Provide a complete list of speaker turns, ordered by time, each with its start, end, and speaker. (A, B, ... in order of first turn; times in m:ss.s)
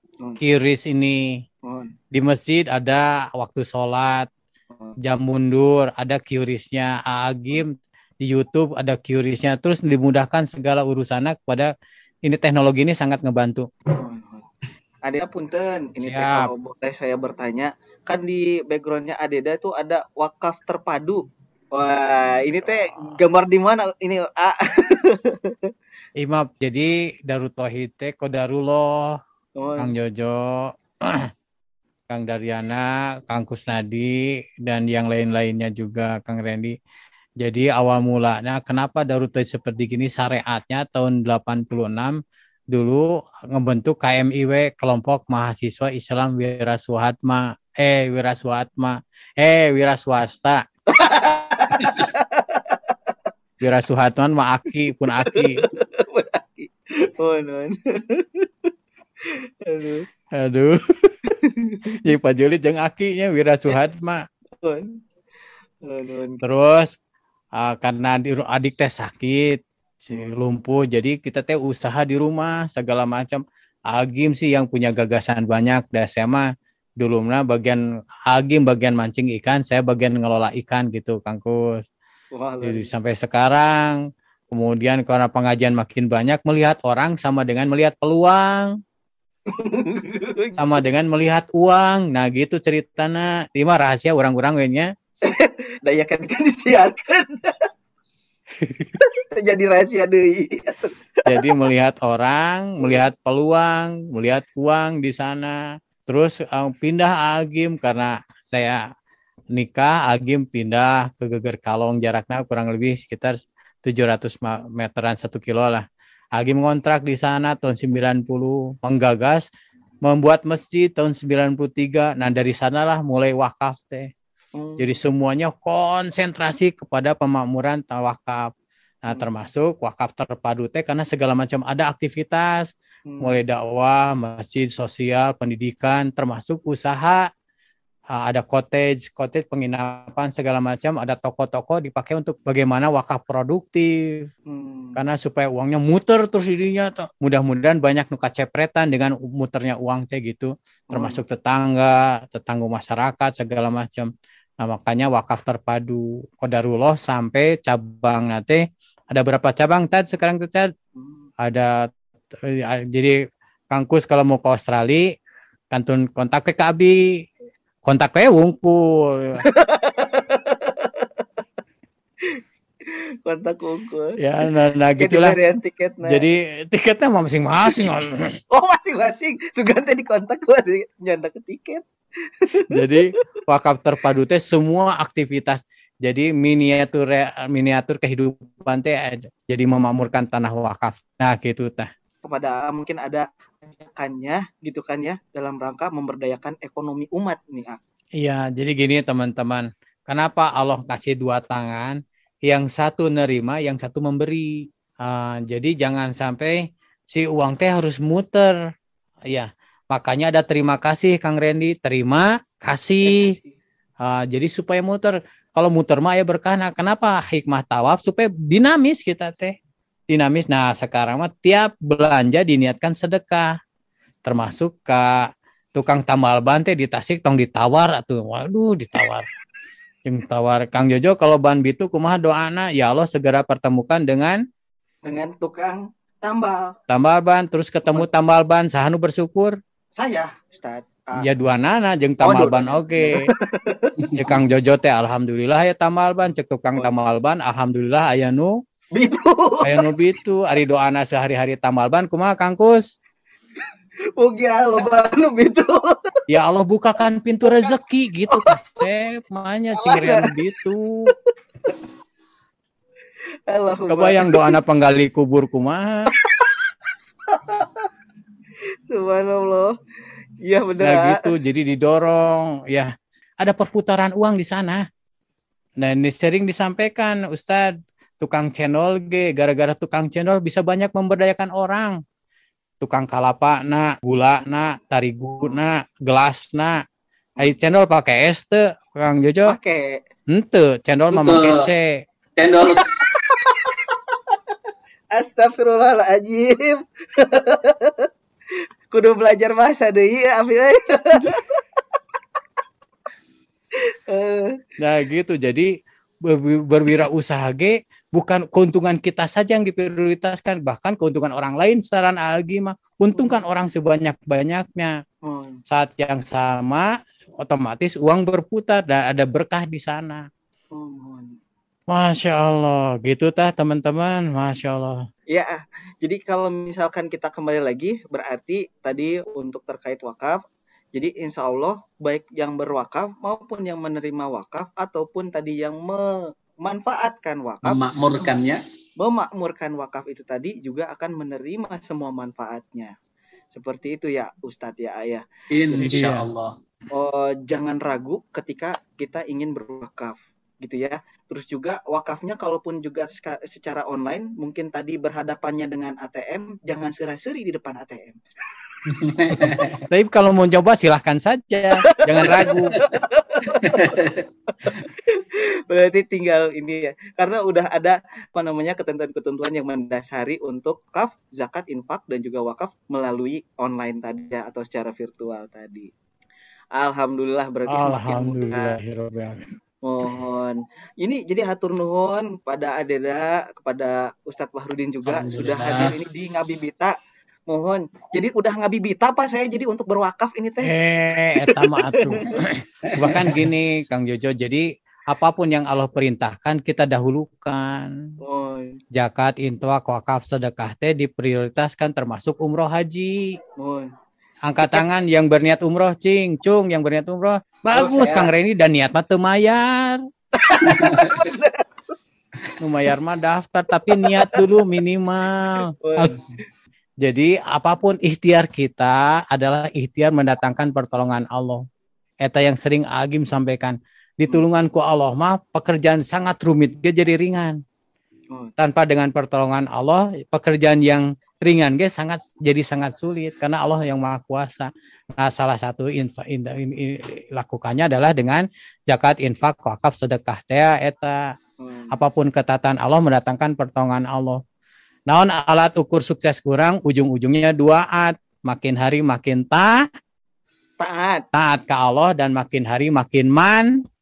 0:00.4-0:01.4 A
0:01.6-0:01.9 B
0:02.1-0:04.3 A
0:05.0-0:11.7 A
0:12.2-0:13.7 A
0:13.9-0:14.5 B
0:15.0-0:25.7 B
0:16.0-0:16.5 A
0:26.2-0:29.2 A
0:29.6-0:29.9 B
0:29.8-0:31.3 A
0:32.1-0:36.8 A
0:37.4-0:42.2 A
0:42.7-0:50.6 A
0:50.9-0:52.9 B
0:53.6-0:55.6 A
0:55.3-0:58.7 B
0:59.2-1:00.1 B
1:00.4-1:01.2 A
1:01.4-1:01.8 B
1:02.0-1:04.2 A
1:04.6-1:04.9 B
1:05.8-1:06.4 B
1:06.4-1:06.9 A
1:07.6-1:16.5 A
1:17.0-1:21.8 A
1:22.3-1:22.9 B
1:22.6-1:24.0 A
1:24.5-1:28.8 A
1:29.5-1:30.7 B
1:30.6-1:34.9 A
1:35.2-1:37.7 B
1:38.6-1:38.9 A
1:39.0-1:41.4 B
1:41.2-1:48.8 A
1:49.5-1:59.5 A
2:00.0-2:04.1 A
2:04.5-2:04.9 B
2:04.8-2:08.5 A
2:09.0-2:17.3 A
2:13.0-2:13.3 B
2:18.1-2:24.3 A
2:24.5-2:25.0 B
2:25.0-2:40.7 A
2:30.9-2:31.2 B
2:41.0-2:41.2 B
2:41.4-2:41.9 A
2:42.4-2:43.2 A
2:43.7-2:45.1 A
2:45.7-2:47.2 A
2:47.8-2:49.4 A
2:49.5-2:51.2 B
2:52.2-2:54.2 B
2:54.2-2:55.4 A
2:55.0-2:56.3 B
2:56.0-2:58.4 A
2:58.5-3:01.8 B
3:02.4-3:03.0 B
3:02.7-3:11.9 A
3:12.2-3:17.8 B
3:18.2-3:28.7 A
3:29.3-3:33.3 A
3:33.0-3:33.5 B
3:34.0-3:39.6 A
3:40.1-3:43.5 A
3:44.2-3:49.2 A
3:50.0-3:54.4 A
3:55.0-3:56.8 B
3:56.9-3:59.6 A
3:59.9-4:01.3 B
4:01.2-4:03.3 A
4:02.2-4:04.4 B
4:04.2-4:08.6 A
4:08.9-4:09.9 B
4:09.6-4:12.8 A
4:14.2-4:16.2 B
4:16.3-4:21.1 A
4:18.3-4:18.5 B
4:19.8-4:20.3 B
4:23.5-4:24.6 B
4:23.9-4:26.1 A
4:26.2-4:26.6 B
4:27.3-4:27.9 B
4:28.9-4:29.8 B
4:30.4-4:31.3 B
4:30.8-4:34.8 A
4:35.8-4:42.0 A
4:42.8-4:46.8 A
4:47.4-4:49.6 A
4:49.5-4:50.0 B
4:50.3-4:52.0 A
4:51.1-4:51.7 C
4:52.4-4:53.0 C
4:52.9-4:54.1 B
4:55.1-4:58.1 B
4:58.9-5:01.6 B
5:03.8-5:04.6 B
5:04.8-5:05.7 A
5:06.3-5:15.0 A
5:15.2-5:15.6 B
5:15.7-5:16.9 A
5:17.4-5:20.3 A
5:20.7-5:21.4 B
5:21.9-5:25.0 A
5:25.3-5:37.8 B
5:37.6-5:38.6 C
5:39.0-5:43.0 B
5:43.5-5:46.1 B
5:45.5-5:46.5 C
5:45.9-5:46.2 A
5:46.9-5:58.2 B
5:58.9-5:59.8 C
5:59.9-6:02.8 A
6:01.9-6:15.9 B
6:03.6-6:04.2 C
6:16.7-6:18.8 B
6:17.7-6:19.4 A
6:19.8-6:26.9 B
6:25.1-6:25.9 C
6:27.5-6:30.7 B
6:30.6-6:37.9 A
6:31.4-6:32.2 B
6:38.2-6:38.8 B
6:38.9-6:43.4 A
6:43.6-6:43.9 B
6:44.4-6:50.0 A
6:47.7-6:48.3 B
6:50.3-6:51.6 B
6:52.6-6:56.2 A
6:53.9-6:54.6 B
6:55.8-6:56.4 B
6:57.0-7:01.6 A
7:02.2-7:07.6 A
7:08.6-7:21.3 A
7:21.6-7:21.9 B
7:21.9-7:24.4 A
7:25.1-7:29.9 A
7:30.8-7:31.3 B
7:31.3-7:33.8 A